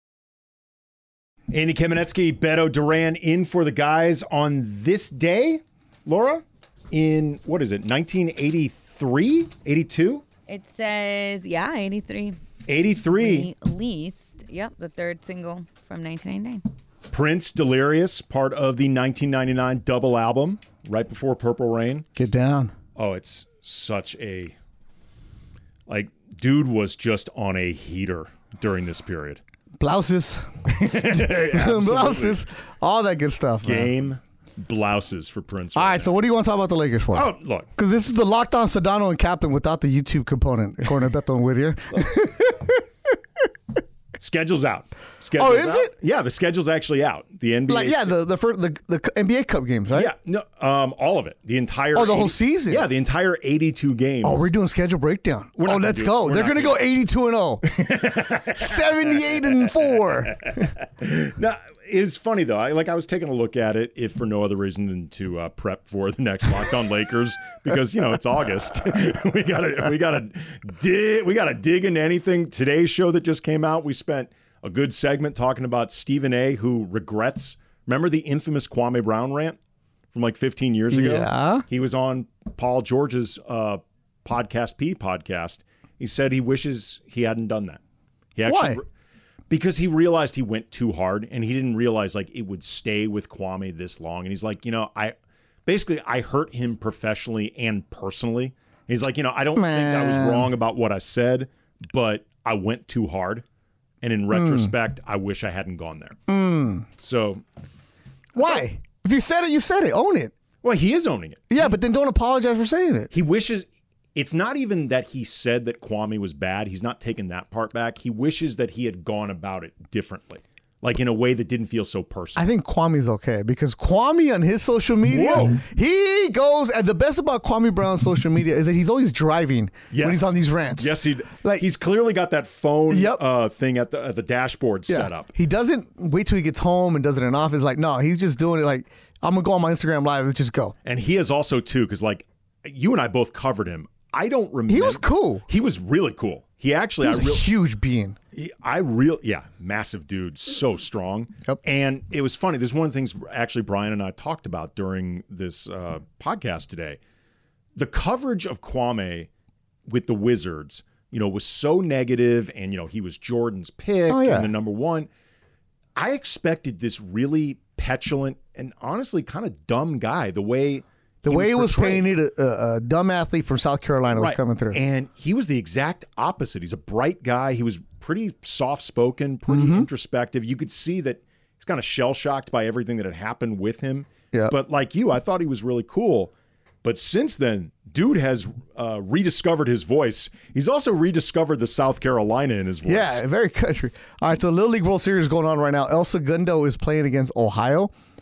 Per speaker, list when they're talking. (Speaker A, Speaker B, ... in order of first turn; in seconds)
Speaker A: 1.5-10.2, 12.7-13.5, 17.1-22.1, 23.0-24.6, 25.9-29.4, 30.8-32.4, 33.6-36.1, 37.1-37.7, 44.2-48.1, 49.9-54.5, 55.6-56.8, 57.7-79.6, 80.1-87.8, 88.4-88.8, 89.5-95.2, 95.7-103.4, 104.0-106.2, 107.0-107.4, 110.6-111.7, 113.1-122.5, 125.1-125.6, 129.9-135.3, 140.8-147.5, 148.3-157.0, 157.8-159.3, 159.9-165.1, 166.0-172.1, 174.1-186.3, 186.8-193.2
Speaker B: 10.5-12.4, 13.2-16.6
Speaker C: 22.2-22.7, 29.8-33.9, 35.8-42.8, 45.4-45.9, 47.7-50.1, 52.0-52.9, 54.2-60.7, 80.9-81.6, 88.5-88.8, 99.6-100.5, 104.3-104.7, 106.3-106.9, 108.3-110.3, 111.5-113.1, 122.4-131.7, 132.9-133.2, 134.9-140.8, 144.7-145.4, 147.0-148.2, 164.1-164.5, 171.2-174.8, 179.5-179.9, 192.9-197.9